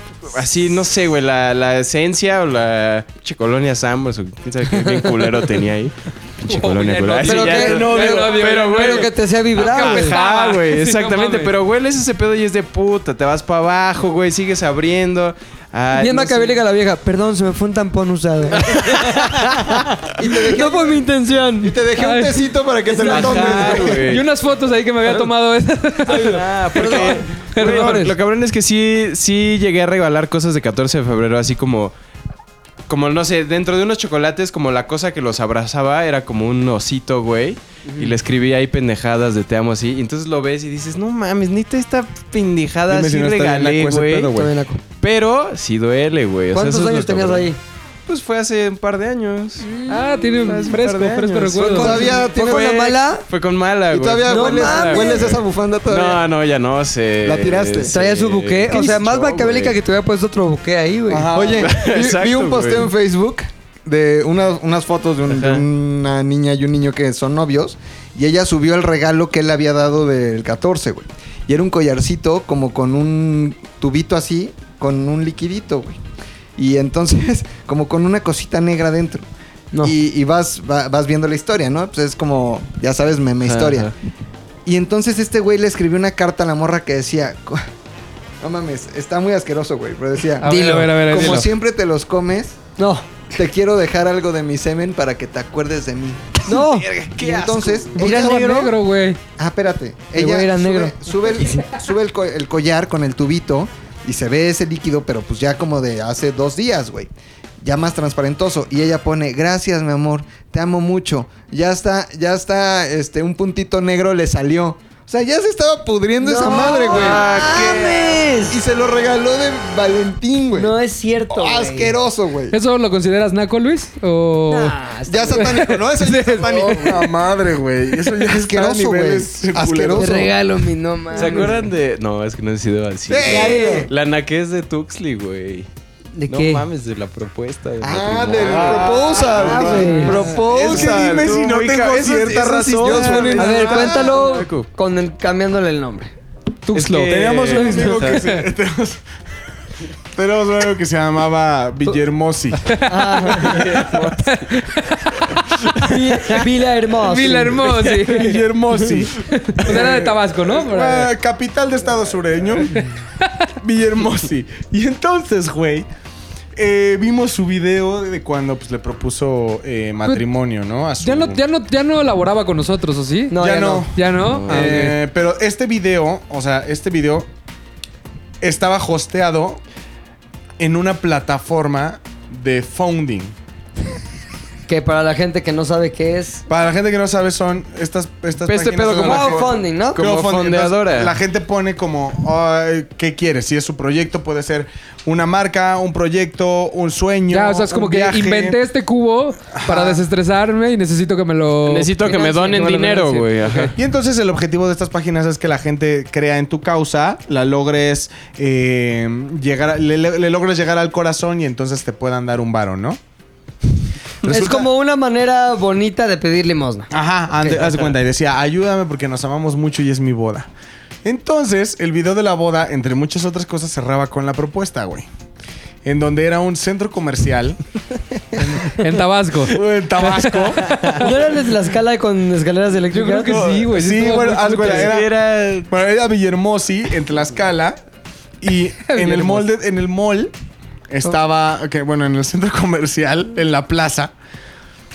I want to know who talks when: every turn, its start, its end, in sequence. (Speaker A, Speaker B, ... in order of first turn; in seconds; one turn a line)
Speaker A: 0.3-16.6
Speaker B: 4.7-5.1
Speaker C: 6.4-11.6
Speaker B: 7.2-10.1
Speaker D: 7.6-8.3
Speaker B: 15.9-21.7
Speaker A: 18.6-19.3
Speaker E: 20.2-21.0
Speaker E: 21.6-24.1
Speaker C: 21.9-22.4
Speaker B: 22.9-23.9
Speaker A: 23.0-24.2
Speaker C: 24.0-28.1
Speaker B: 26.1-27.3
Speaker A: 26.1-31.9
Speaker A: 32.9-44.4
Speaker B: 37.9-38.1
Speaker D: 42.9-44.5
Speaker B: 44.3-44.8
Speaker A: 45.0-47.5
Speaker B: 46.5-47.6
Speaker A: 48.1-49.8
Speaker B: 49.7-50.2
Speaker C: 49.9-52.0
Speaker A: 50.4-59.8
Speaker B: 51.6-53.2
Speaker E: 51.7-52.8
Speaker E: 53.9-56.2
Speaker B: 54.3-55.3
Speaker E: 57.2-57.9
Speaker B: 57.8-61.3
Speaker D: 61.1-61.7
Speaker E: 61.3-76.0
Speaker A: 61.6-62.9
Speaker A: 65.3-65.6
Speaker E: 76.6-79.2
Speaker E: 79.8-83.9
Speaker A: 83.4-83.9
Speaker E: 84.7-87.7
Speaker E: 88.4-92.6
Speaker C: 90.4-91.5
Speaker B: 90.4-90.9
Speaker B: 92.8-93.0
Speaker E: 93.3-98.7
Speaker B: 96.5-96.9
Speaker A: 97.2-97.8
Speaker C: 97.9-99.2
Speaker E: 99.4-117.3
Speaker B: 100.1-101.7
Speaker B: 116.2-118.6
Speaker A: 116.8-118.2
Speaker E: 118.5-120.7
Speaker B: 120.5-121.9
Speaker E: 121.3-122.6
Speaker C: 122.5-126.9
Speaker B: 124.5-125.6
Speaker E: 125.1-127.1
Speaker D: 126.8-130.3
Speaker E: 128.2-130.3
Speaker B: 129.9-131.6
Speaker A: 131.1-135.7
Speaker E: 133.1-133.9
Speaker B: 133.2-133.9
Speaker B: 136.2-136.6
Speaker A: 136.3-139.3
Speaker E: 137.8-141.4
Speaker D: 138.4-144.1
Speaker B: 139.2-140.3
Speaker C: 139.8-140.2
Speaker A: 140.2-144.7
Speaker E: 142.8-144.1
Speaker B: 143.3-146.1
Speaker C: 146.7-148.4
Speaker A: 146.7-148.2
Speaker D: 147.1-149.0
Speaker B: 147.7-148.1
Speaker D: 150.1-152.8
Speaker C: 152.8-153.3
Speaker B: 152.9-153.5
Speaker A: 153.3-154.5
Speaker D: 153.4-154.0
Speaker C: 154.3-155.4
Speaker B: 155.8-157.7
Speaker C: 157.0-161.1
Speaker D: 157.7-162.8
Speaker D: 163.6-165.9
Speaker D: 166.6-171.4
Speaker C: 171.0-173.3
Speaker B: 173.3-173.9
Speaker D: 173.4-177.3
Speaker C: 173.9-175.0
Speaker A: 174.3-174.9
Speaker D: 178.4-179.6
Speaker D: 180.6-183.3
Speaker B: 184.7-186.4
Speaker D: 186.5-198.6
Speaker A: 188.5-189.4
Speaker B: 188.5-190.0
Speaker A: 189.9-191.1
Speaker C: 197.3-203.7
Speaker D: 199.5-200.0
Speaker A: 201.7-203.7
Speaker B: 202.1-202.7
Speaker D: 203.7-213.0
Speaker D: 214.2-214.7
Speaker B: 214.2-216.9
Speaker D: 216.9-220.5
Speaker E: 217.4-217.8
Speaker D: 221.0-225.1
Speaker D: 225.8-227.6
Speaker B: 228.4-228.8
Speaker C: 228.6-231.1
Speaker D: 229.5-231.0
Speaker B: 231.0-233.4
Speaker C: 232.9-234.9
Speaker D: 233.3-235.2
Speaker A: 234.4-235.7
Speaker D: 235.7-237.8
Speaker D: 238.4-240.3
Speaker C: 238.8-239.5
Speaker D: 240.9-244.1